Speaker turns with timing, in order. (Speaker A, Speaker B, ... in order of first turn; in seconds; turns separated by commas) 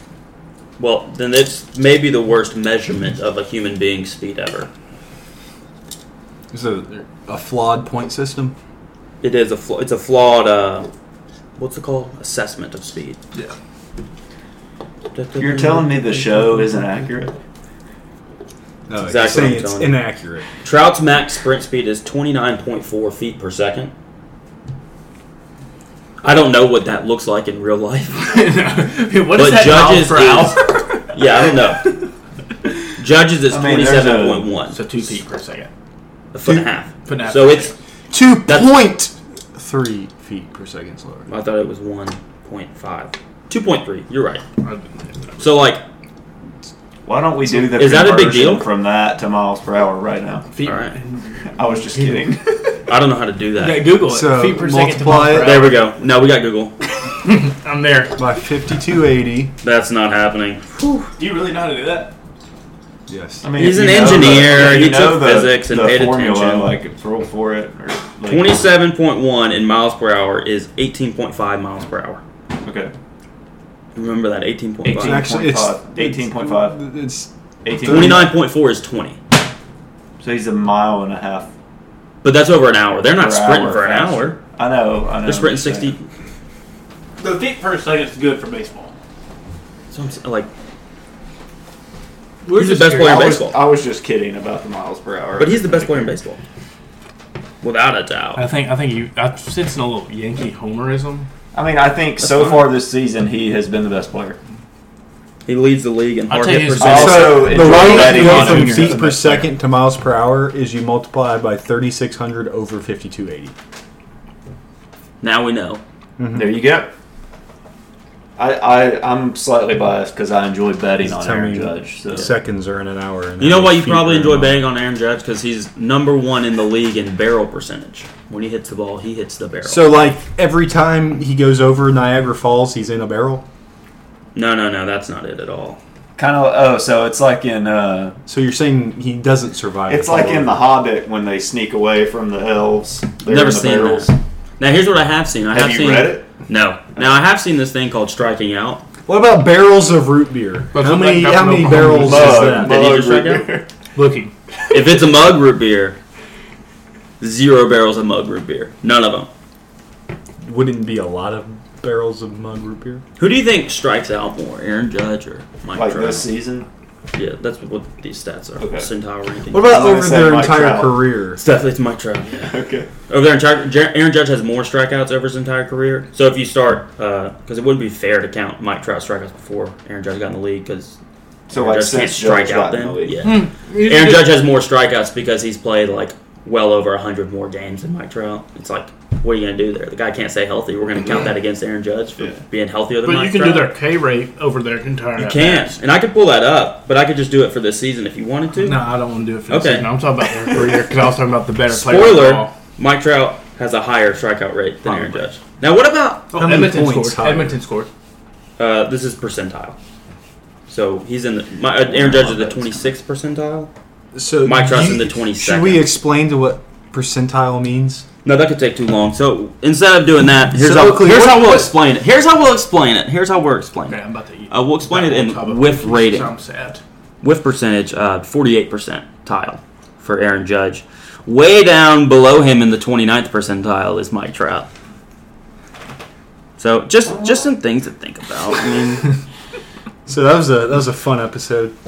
Speaker A: 0.8-4.7, Speaker B: 6.5-8.5, Speaker A: 9.2-10.9, Speaker A: 11.6-13.2, Speaker A: 15.1-16.7, Speaker C: 15.4-17.3, Speaker B: 18.9-20.5, Speaker A: 19.0-20.0, Speaker A: 20.6-23.9, Speaker A: 26.2-28.4, Speaker D: 28.2-32.0, Speaker A: 29.3-31.9, Speaker A: 33.0-34.8, Speaker C: 33.5-34.5, Speaker D: 34.7-35.7, Speaker A: 36.3-37.7, Speaker D: 37.0-37.7, Speaker B: 38.1-41.3, Speaker A: 38.5-38.7, Speaker A: 41.3-44.4, Speaker D: 44.6-45.5, Speaker A: 45.4-45.8, Speaker C: 47.0-50.5, Speaker A: 47.5-48.6, Speaker D: 50.5-52.2, Speaker A: 50.6-50.9, Speaker C: 51.5-52.8, Speaker A: 52.9-53.9, Speaker D: 53.6-55.9, Speaker B: 54.0-55.6, Speaker A: 55.3-56.8, Speaker D: 57.2-58.1, Speaker B: 58.2-59.5, Speaker A: 59.6-61.1, Speaker D: 61.2-62.1, Speaker B: 63.1-63.5, Speaker C: 63.4-68.6, Speaker A: 63.6-66.7, Speaker A: 68.3-72.2, Speaker C: 72.6-72.9, Speaker A: 73.9-75.3, Speaker C: 74.8-76.8, Speaker B: 74.9-78.2, Speaker C: 77.6-78.3, Speaker A: 77.8-79.2, Speaker C: 80.2-81.5, Speaker A: 82.2-84.4, Speaker C: 83.2-85.9, Speaker A: 85.2-86.0, Speaker D: 87.2-88.9, Speaker A: 89.9-90.5, Speaker D: 92.4-93.3, Speaker A: 92.5-93.6, Speaker C: 92.9-96.2, Speaker A: 95.4-96.4, Speaker A: 97.6-98.5, Speaker D: 98.3-101.3, Speaker C: 101.5-104.4, Speaker A: 102.2-102.7, Speaker A: 105.5-108.0, Speaker D: 106.3-109.0, Speaker C: 106.8-109.5, Speaker B: 106.8-113.5, Speaker A: 115.2-115.8, Speaker B: 116.2-116.6, Speaker C: 116.3-116.9, Speaker C: 118.4-122.3, Speaker B: 121.0-124.6, Speaker A: 123.4-130.1, Speaker B: 129.6-133.4, Speaker A: 134.3-135.8, Speaker C: 136.2-138.2, Speaker B: 138.3-140.7, Speaker C: 139.9-144.1, Speaker A: 143.2-148.8, Speaker C: 145.5-146.3, Speaker B: 149.1-152.8, Speaker D: 150.7-152.5, Speaker C: 151.7-153.7, Speaker A: 152.3-153.4, Speaker D: 153.9-154.3, Speaker A: 154.7-156.0, Speaker A: 157.2-159.3, Speaker B: 160.4-163.0, Speaker A: 163.2-166.2, Speaker C: 165.7-166.7, Speaker A: 167.1-169.7, Speaker C: 168.6-168.9, Speaker B: 169.5-171.4, Speaker C: 169.6-171.0, Speaker A: 171.4-172.5, Speaker C: 172.4-172.9, Speaker A: 173.1-181.0, Speaker C: 181.5-183.3, Speaker A: 181.5-193.7, Speaker D: 183.2-184.3, Speaker D: 193.0-195.8, Speaker A: 195.2-198.9, Speaker D: 198.5-202.5, Speaker A: 199.5-199.9, Speaker A: 201.7-206.3, Speaker D: 206.3-207.9, Speaker B: 206.3-207.6, Speaker A: 208.6-209.8, Speaker A: 210.7-213.7, Speaker C: 211.8-212.9, Speaker B: 214.1-218.1, Speaker A: 214.4-215.9, Speaker A: 218.2-226.3, Speaker B: 220.5-221.7, Speaker D: 223.8-226.8, Speaker A: 227.2-234.7, Speaker A: 236.6-239.2, Speaker B: 240.1-241.7